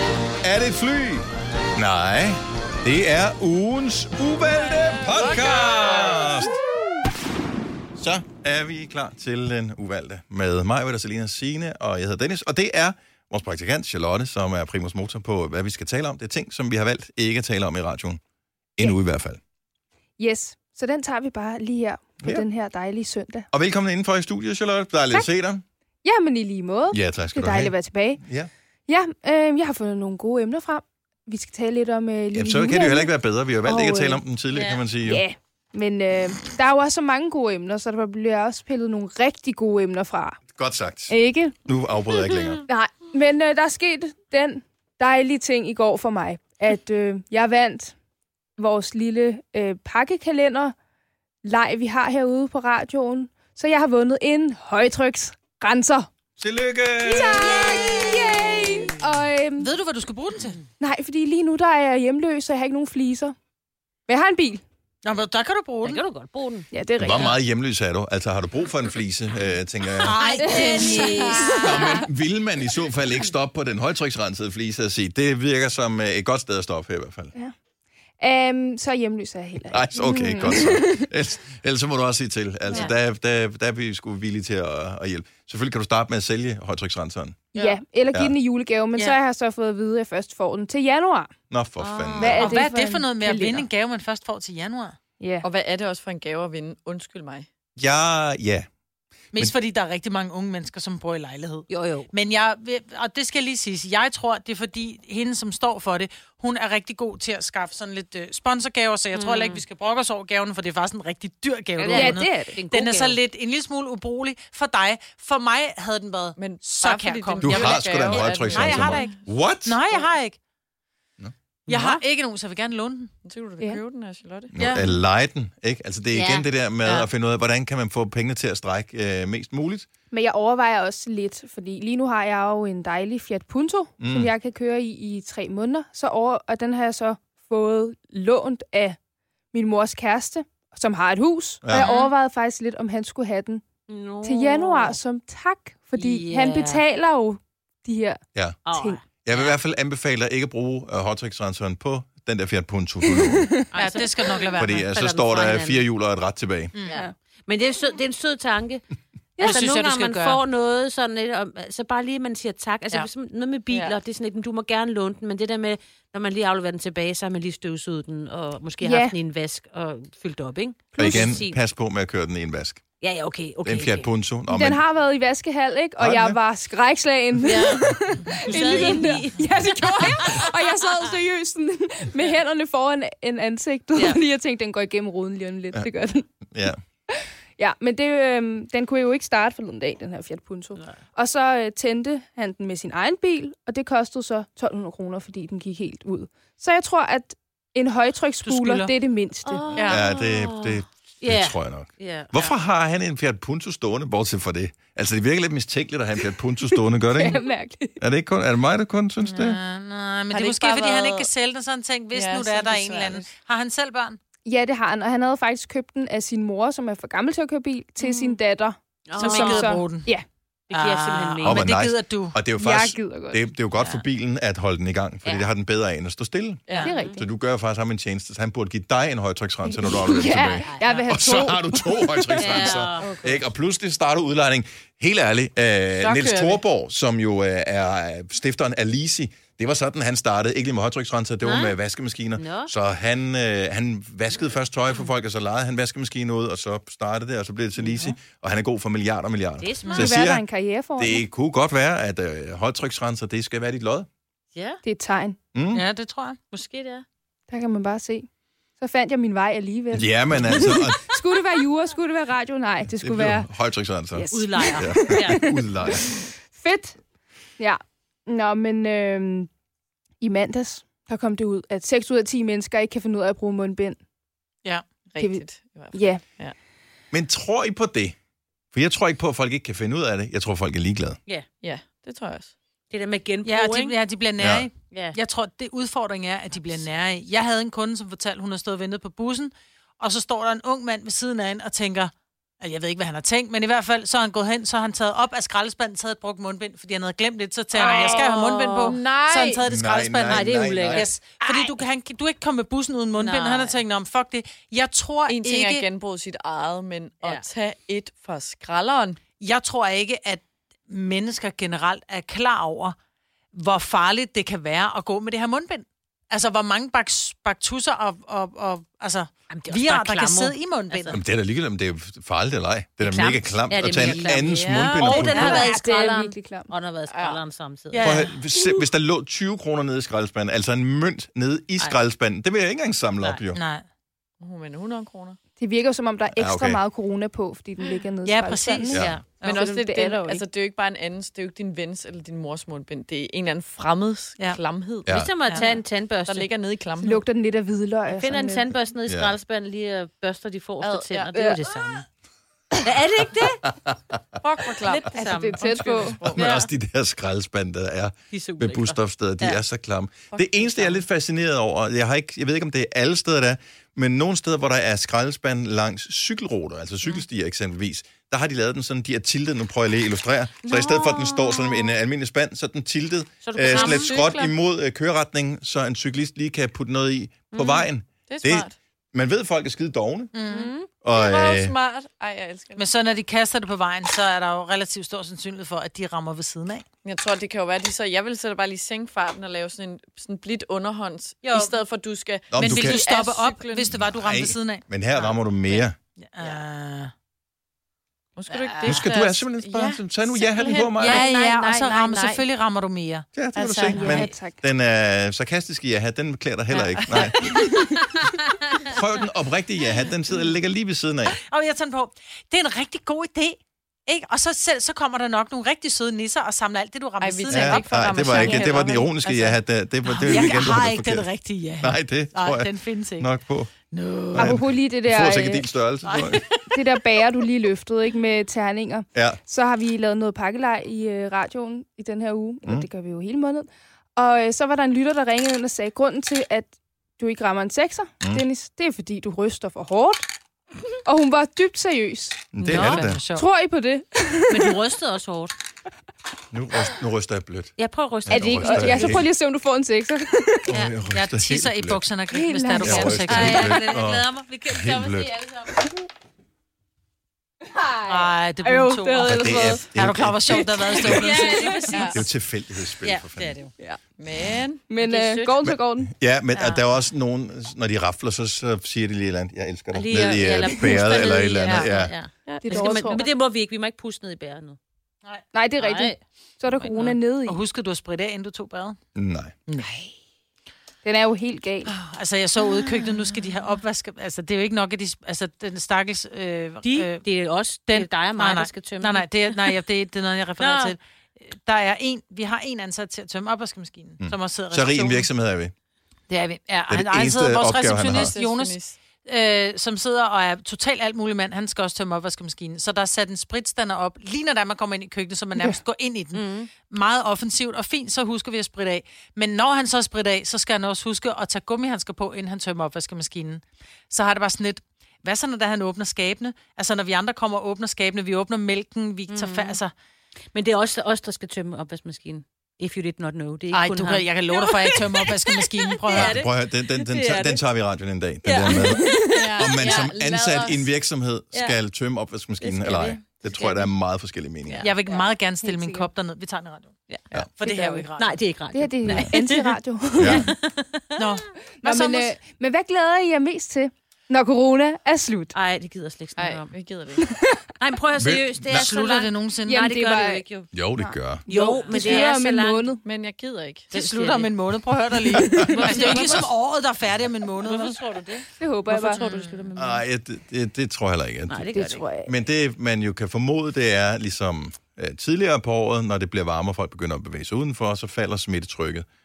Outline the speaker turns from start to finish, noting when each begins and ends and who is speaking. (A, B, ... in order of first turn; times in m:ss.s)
0:00.4-0:06.6 A
0:05.0-0:06.6 B
0:08.0-0:18.2 A
0:18.8-0:19.4 A
0:20.2-0:23.5 C
0:22.2-0:22.4 A
0:23.5-0:25.6 A
0:26.0-0:28.2 C
0:26.9-0:28.5 A
0:28.9-0:33.1 C
0:32.3-0:35.2 A
0:33.6-0:34.2 C
0:34.5-0:34.8 D
0:35.0-0:40.4 C
0:40.6-0:42.6 A
0:41.1-0:41.6 C
0:42.6-0:47.9 C
0:48.6-0:50.7 C
0:51.4-0:56.1 C
0:56.4-0:57.8 A
0:57.0-0:59.7 C
0:57.2-0:58.9 E
0:59.6-1:00.6 E
1:00.8-1:03.3 C
1:04.1-1:04.6 C
1:05.0-1:06.0 E
1:05.8-1:06.7 D
1:06.7-1:07.4 C
1:07.0-1:17.3 A
1:10.0-1:12.0 E
1:10.4-1:12.0 C
1:18.2-1:21.1 C
1:19.7-1:27.4 A
1:27.5-1:27.8 D
1:27.5-1:31.3 C
1:31.5-1:32.5 A
1:31.8-1:32.6 D
1:32.2-1:33.7 C
1:32.3-1:35.0 E
1:35.2-1:35.5 C
1:35.4-1:37.5 B
1:37.8-1:38.7 A
1:39.3-2:00.4 E
1:41.7-1:42.1 D
1:49.1-1:49.6 D
1:51.8-1:53.2 D
1:51.9-1:52.6 C
1:56.4-1:59.3 B
1:57.4-1:58.2 D
1:57.4-1:59.8 A
2:01.7-2:02.0 D
2:01.7-2:03.1 E
2:03.2-2:04.6 B
2:04.5-2:09.9 A
2:04.6-2:04.9 E
2:06.1-2:06.5 D
2:10.1-2:19.0 C
2:14.0-2:14.3 A
2:19.5-2:23.6 C
2:21.6-2:21.9 A
2:21.8-2:22.1 D
2:23.9-2:25.0 D
2:24.2-2:29.0 C
2:26.0-2:26.8 D
2:28.6-2:29.6 D
2:29.2-2:33.5 A
2:33.1-2:34.4 C
2:33.7-2:34.1 D
2:33.7-2:34.9 E
2:34.6-2:36.7 A
2:34.9-2:35.9 D
2:36.7-2:37.0 E
2:37.5-2:38.8 D
2:39.4-2:39.6 C
2:39.4-2:51.6 D
2:39.4-2:40.4 E
2:43.7-2:44.0 B
2:48.8-2:49.2 C
2:51.0-2:52.8 A
2:51.0-2:51.3 C
2:53.0-2:54.1 D
2:53.6-2:54.8 A
2:54.5-3:06.3 C
2:56.0-2:56.4 A
2:57.4-2:57.9 D
2:58.4-3:00.5 D
2:58.6-2:59.0 B
3:03.9-3:04.2 D
3:06.5-3:06.8 A
3:07.1-3:19.9 C
3:18.4-3:18.9 E
3:19.4-3:22.5 D
3:19.7-3:20.0 B
3:19.8-3:27.4 A
3:27.1-3:28.0 C
3:28.0-3:29.6 A
3:29.2-3:34.2 E
3:30.3-3:31.3 B
3:32.1-3:33.3 B
3:34.4-3:40.2 C
3:38.0-3:38.4 E
3:39.1-3:39.7 D
3:39.2-3:40.1 E
3:40.7-3:41.7 D
3:40.7-3:42.4 E
3:41.4-4:14.1 A
3:42.6-3:43.4 C
3:43.7-3:44.0 E
3:45.2-3:45.5 D
3:46.7-3:47.2 D
3:46.8-3:47.2 C
3:49.6-3:52.8 C
3:50.6-3:51.2 D
3:52.4-3:53.1 D
3:53.0-3:53.4 B
3:56.0-3:56.6 B
4:01.4-4:01.7 D
4:02.4-4:02.7 D
4:07.8-4:08.1 D
4:09.6-4:10.0 D
4:09.8-4:10.2 E
4:09.9-4:11.2 C
4:14.5-4:14.8 D
4:14.8-4:15.4 C
4:15.5-4:15.8 A
4:15.7-4:16.4 E
4:16.5-4:17.0 D
4:17.5-4:18.3 C
4:18.8-4:23.5 C
4:19.9-4:21.2 A
4:22.9-4:26.1 A
4:24.1-4:27.0 C
4:24.3-4:25.4 D
4:27.6-4:29.5 C
4:30.2-4:34.0 C
4:35.1-4:36.5 B
4:35.2-4:36.2 C
4:37.1-4:38.1 A
4:38.7-4:41.2 A
4:41.6-4:42.5 B
4:42.9-4:43.9 D
4:43.4-5:05.9 E
4:44.4-4:44.7 A
4:44.9-4:45.2 D
4:57.7-4:59.5 D
4:57.8-4:58.1 B
4:58.8-4:59.6 B
4:59.7-5:01.1 A
5:00.2-5:01.8 D
5:03.1-5:03.8 D
5:05.3-5:09.2 B
5:07.2-5:07.5 D
5:09.4-5:13.0 E
5:13.5-5:21.2 E
5:19.5-5:21.2 D
5:21.1-5:25.6 A
5:23.0-5:28.2 D
5:23.9-5:25.8 E
5:25.3-5:26.7 C
5:27.1-5:27.4 B
5:27.9-5:28.3 E
5:28.0-5:33.6 A
5:33.5-5:33.8 E
5:34.4-5:35.4 B
5:35.6-5:40.4 C
5:36.4-5:36.8 A
5:38.2-5:39.6 E
5:38.9-5:39.2 A
5:38.9-5:39.4 D
5:39.4-5:47.2 B
5:45.0-5:45.3 A
5:45.1-5:46.5 D
5:45.4-5:45.8 E
5:47.0-5:48.6 C
5:48.1-5:52.0 D
5:49.0-5:49.4 A
5:50.8-5:51.3 B
5:52.8-5:53.6 D
5:54.4-5:56.5 B
5:54.8-5:55.6 D
5:55.2-5:56.2 C
5:56.2-6:20.3 A
5:56.4-5:56.7 D
5:58.3-5:59.6 D
6:00.3-6:01.0 B
6:10.6-6:12.0 D
6:13.4-6:14.5 D
6:13.7-6:14.2 B
6:17.5-6:17.9 D
6:18.3-6:18.8 B
6:20.3-6:20.7 E
6:20.4-6:21.0 D
6:21.0-6:21.7 A
6:21.1-6:22.9 B
6:22.8-6:26.8 E
6:27.0-6:33.9 B
6:31.4-6:31.8 D
6:32.5-6:33.0 A
6:32.6-6:37.1 E
6:33.9-6:36.0 A
6:38.4-6:42.4 B
6:38.5-6:39.4 E
6:38.8-6:41.2 A
6:40.7-6:41.7 D
6:41.0-6:43.3 E
6:43.3-6:47.9 A
6:43.5-6:44.1 B
6:43.9-6:44.3 E
6:43.9-6:44.6 C
6:46.7-6:47.8 B
6:48.8-6:51.4 A
6:51.3-6:58.6 E
6:57.2-6:59.6 B
6:57.5-7:03.7 A
7:00.0-7:03.3 E
7:00.3-7:00.6 C
7:03.9-7:04.6 E
7:04.3-7:06.4 A
7:04.4-7:05.7 C
7:06.0-7:06.6 E
7:06.7-7:20.3 C
7:09.1-7:09.4 A
7:21.0-7:22.6 C
7:22.5-7:23.2 A
7:22.6-7:23.5 E
7:22.6-7:23.0 D
7:23.1-7:24.8 C
7:24.5-7:25.5 D
7:26.5-7:27.7 A
7:27.8-7:29.2 D
7:28.2-7:29.3 A
7:28.3-7:30.7 C
7:30.7-7:32.0 A
7:30.7-7:30.9 D
7:31.1-7:33.8 E
7:32.3-7:33.4 C
7:32.8-7:35.3 A
7:33.2-7:35.9 D
7:37.7-7:39.9 C
7:38.0-7:42.0 E
7:39.2-7:41.3 A
7:40.5-7:42.1 C
7:41.0-7:42.2 D
7:41.9-7:42.2 B
7:42.1-7:43.6 A
7:43.0-7:43.7 D
7:44.2-7:44.9 B
7:44.9-7:46.1 C
7:44.9-7:45.6 D
7:45.7-7:52.1 A
7:46.5-7:46.8 E
7:49.9-7:54.8 D
7:51.6-7:51.9 B
7:52.4-7:53.2 B
7:52.6-7:53.3 C
7:55.5-7:57.6 C
7:55.8-7:56.2 D
7:56.7-7:59.0 E
7:59.2-7:59.5 A
7:59.7-8:00.0 E
8:01.0-8:01.9 C
8:01.8-8:07.2 E
8:02.7-8:03.2 D
8:06.8-8:09.3 D
8:07.9-8:15.3 E
8:10.6-8:11.0 D
8:14.2-8:15.7 A
8:16.3-8:39.9 E
8:16.9-8:18.3 A
8:18.1-8:19.0 B
8:26.3-8:26.7 D
8:39.3-8:39.8 D
8:40.5-8:47.6 D
8:43.7-8:46.4 E
8:46.1-8:54.9 A
8:48.4-8:50.1 D
8:49.3-8:51.0 B
8:52.6-8:53.9 D
8:54.6-8:54.9 D
8:54.8-8:57.0 E
8:55.6-8:56.1 C
8:57.3-8:57.9 B
8:57.6-8:58.4 E
8:57.7-8:58.0 C
8:58.1-9:01.3 D
8:58.7-9:00.5 C
9:00.2-9:00.5 A
9:01.2-9:02.4 E
9:01.7-9:05.6 C
9:05.5-9:06.7 D
9:06.4-9:07.3 B
9:07.2-9:07.7 C
9:07.8-9:10.7 D
9:08.2-9:09.0 A
9:08.7-9:09.8 E
9:09.7-9:10.4 C
9:10.7-9:11.4 A
9:11.0-9:13.0 C
9:11.5-9:12.9 D
9:13.0-9:13.9 B
9:13.9-9:18.0 E
9:13.9-9:14.5 D
9:15.4-9:16.5 D
9:15.4-9:16.0 C
9:16.0-9:16.3 B
9:17.6-9:20.0 D
9:18.6-9:19.2 C
9:19.2-9:19.6 E
9:19.8-9:21.7 A
9:21.5-9:22.0 D
9:21.7-9:22.3 C
9:22.2-9:29.0 A